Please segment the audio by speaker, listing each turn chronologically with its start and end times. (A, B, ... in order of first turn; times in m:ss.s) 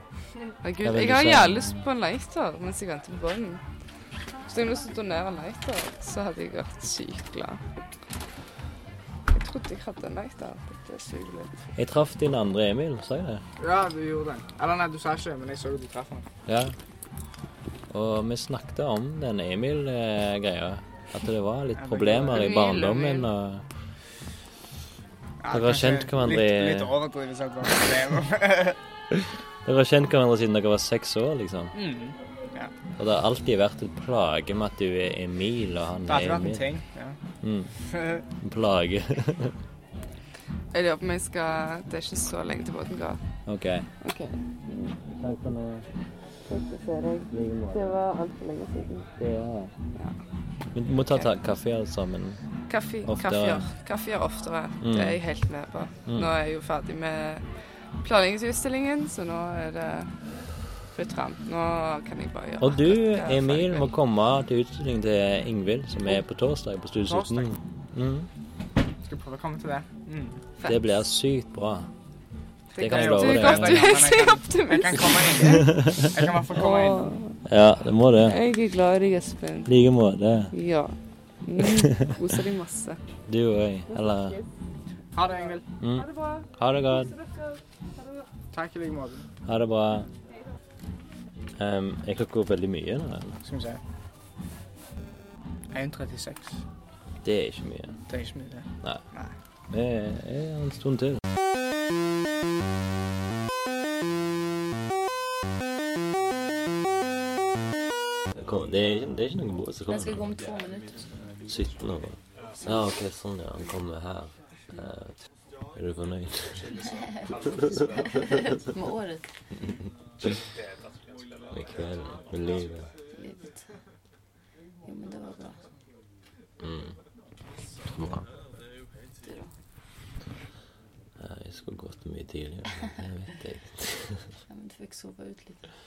0:00.6-0:03.6 A
0:00.8-0:01.8 B
0:04.5-0:07.6 A
0:09.3-0:11.5 A
0:11.8-0:13.4 B
0:13.6-0:16.3 C
0:16.5-0:16.7 B
0:17.9-0:23.6 B
0:21.8-0:22.6 C
0:22.3-0:23.3 A
0:25.4-0:28.8 C
0:25.5-0:26.9 B
0:29.6-0:31.8 B
0:31.7-0:32.7 C
0:33.0-0:36.7 B
0:36.1-0:37.2 C
0:37.4-0:37.7 B
0:37.9-0:38.2 C
0:38.4-0:39.5 B
0:40.7-0:43.2 A
0:43.5-0:43.9 B
0:45.2-0:45.8 B
0:47.3-0:48.0 B
0:49.2-0:49.7 B
0:50.7-0:52.4 B
0:52.7-0:57.4 A
0:53.0-0:53.6 B
0:54.8-0:55.2 B
0:58.0-1:00.1 A
1:00.9-1:03.9 A
1:02.6-1:08.3 B
1:07.1-1:07.5 C
1:09.0-1:10.4 C
1:10.6-1:10.9 A
1:10.6-1:11.9 B
1:12.7-1:15.5 A
1:12.8-1:14.0 B
1:12.9-1:17.1 C
1:16.5-1:17.3 A
1:17.4-1:18.4 B
1:18.2-1:19.7 A
1:19.7-1:20.5 B
1:20.5-1:20.9 A
1:21.5-1:23.0 A
1:23.3-1:24.4 B
1:25.1-1:25.6 C
1:25.8-1:27.1 B
1:28.5-1:29.2 C
1:29.5-1:30.1 B
1:31.6-1:33.4 B
1:33.4-1:33.8 C
1:35.7-1:36.5 C
1:37.2-1:38.0 B
1:38.1-1:39.3 C
1:39.7-1:41.2 B
1:48.4-1:50.1 B
1:49.9-1:51.0 D
1:51.5-1:55.1 B
1:55.8-1:56.6 B
1:58.2-1:59.2 D
2:01.5-2:02.9 B
2:03.1-2:03.6 D
2:04.9-2:05.6 D
2:11.2-2:14.2 B
2:14.5-2:15.6 D